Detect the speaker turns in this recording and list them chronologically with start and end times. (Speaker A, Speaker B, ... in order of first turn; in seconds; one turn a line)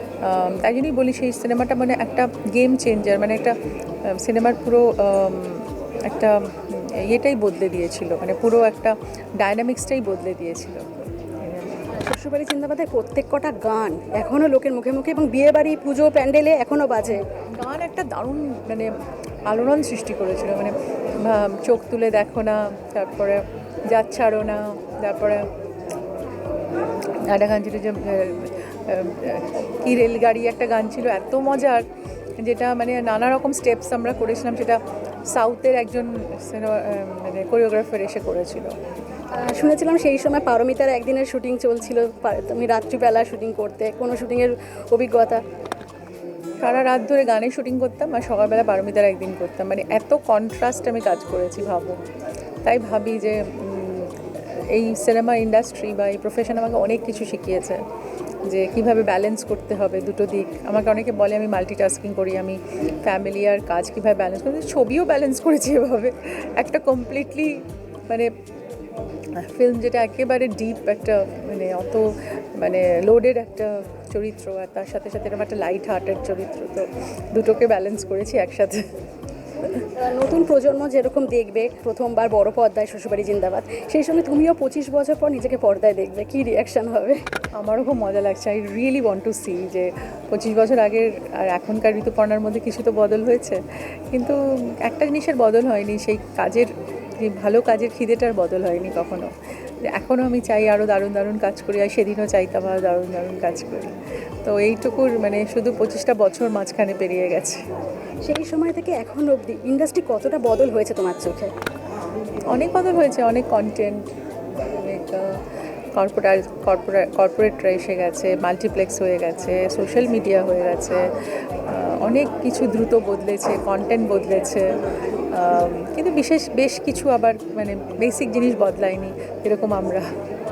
Speaker A: 0.2-11.9
Speaker B: 11.9-17.2
Speaker A: 17.1-25.5
Speaker A: 27.1-31.8
Speaker A: 32.4-38.8
Speaker B: 39.3-45.4
Speaker A: 46.6-52.0
Speaker A: 52.6-57.8
Speaker A: 58.5-68.3
Speaker A: 69.3-78.8
Speaker B: 80.0-87.2
Speaker A: 87.5-99.3
Speaker A: 99.8-107.6
Speaker B: 108.2-111.5
Speaker A: 112.5-115.4
Speaker A: 115.9-124.8
Speaker A: 125.3-130.1